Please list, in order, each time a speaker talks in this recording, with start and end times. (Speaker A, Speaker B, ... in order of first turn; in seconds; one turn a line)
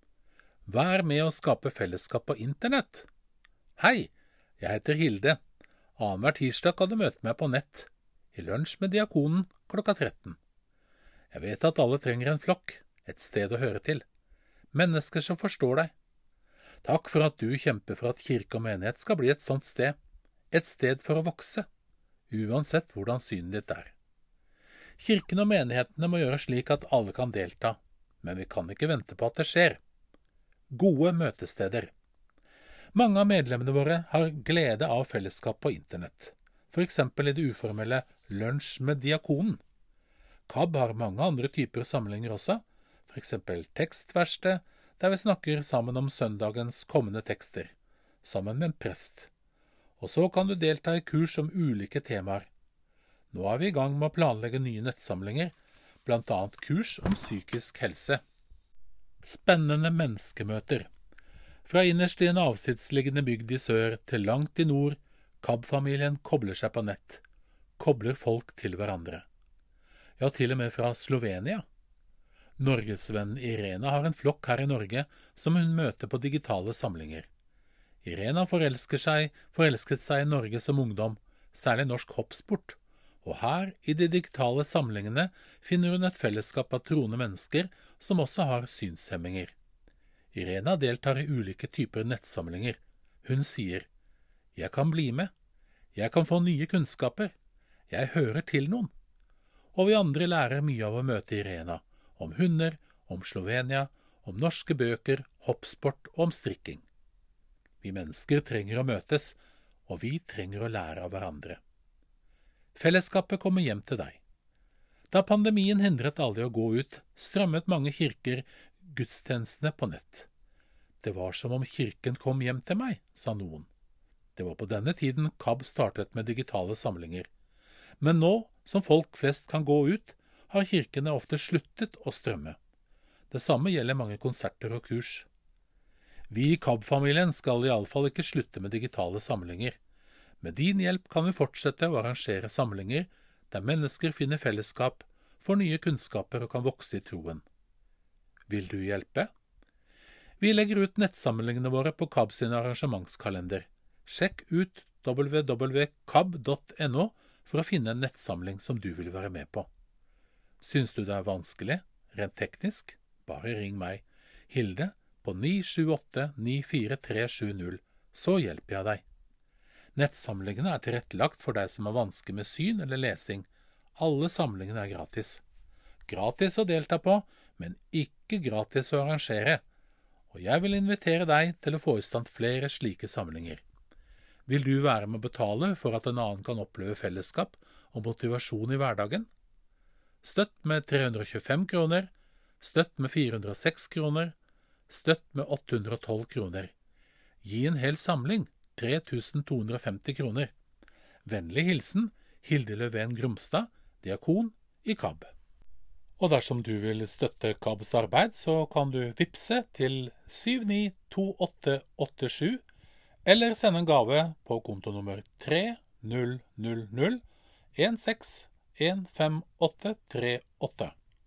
Speaker A: 0.7-3.1
Speaker A: 3.8-5.4
Speaker A: 6.0-10.4
Speaker A: 11.3-14.0
Speaker A: 14.7-15.9
Speaker A: 16.8-20.0
Speaker A: 20.5-21.6
Speaker A: 22.3-23.9
Speaker A: 25.0-29.8
Speaker A: 30.7-31.9
Speaker A: 32.9-39.6
Speaker A: 40.5-49.3
Speaker A: 50.0-52.5
Speaker A: 53.3-58.2
Speaker A: 59.2-60.9
Speaker A: 61.6-67.2
Speaker A: 67.8-69.2
Speaker A: 70.2-71.6
Speaker A: 72.6-77.3
Speaker A: 78.0-89.5
Speaker A: 90.3-93.9
Speaker A: 94.5-95.3
Speaker A: 95.9-97.3
Speaker A: 97.9-98.9
Speaker A: 99.7-106.8
Speaker A: 107.8-111.6
Speaker A: 112.7-114.2
Speaker A: 115.1-120.3
Speaker A: 121.0-123.7
Speaker A: 124.3-127.3
Speaker A: 128.0-132.6
Speaker A: 133.3-135.3
Speaker A: 136.3-139.8
Speaker A: 140.4-147.4
Speaker A: 148.5-149.3
Speaker A: 150.4-159.7
Speaker A: 160.6-169.0
Speaker A: 169.9-175.4
Speaker A: 176.1-179.6
Speaker A: 180.3-183.6
Speaker A: 184.5-189.3
Speaker A: 190.2-194.3
Speaker A: 194.9-196.7
Speaker A: 197.4-200.5
Speaker A: 201.2-205.3
Speaker A: 206.2-212.6
Speaker A: 213.2-217.2
Speaker A: 217.7-220.9